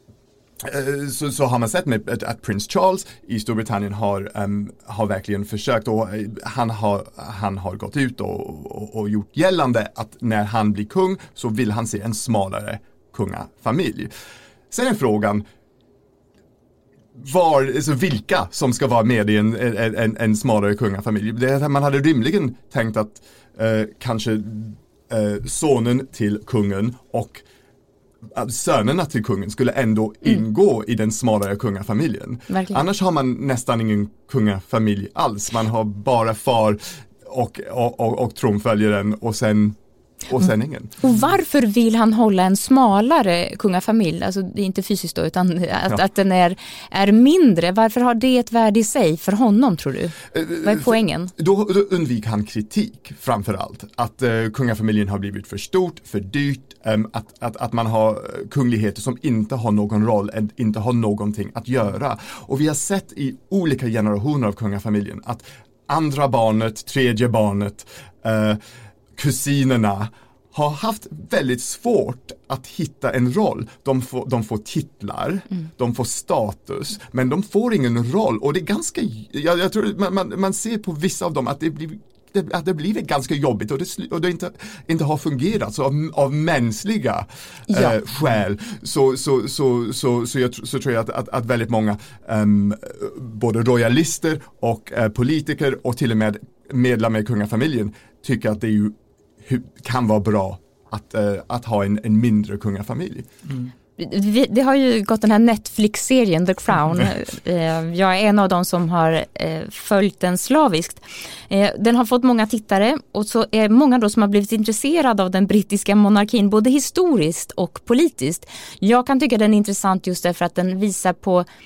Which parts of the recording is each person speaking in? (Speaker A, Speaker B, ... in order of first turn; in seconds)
Speaker A: 0.6-14.1, 14.7-15.4, 17.2-27.4, 28.3-39.8, 40.3-41.0, 50.3-68.6, 69.1-103.3
Speaker B: 32.5-32.8, 41.0-51.3, 87.7-87.9, 104.0-121.5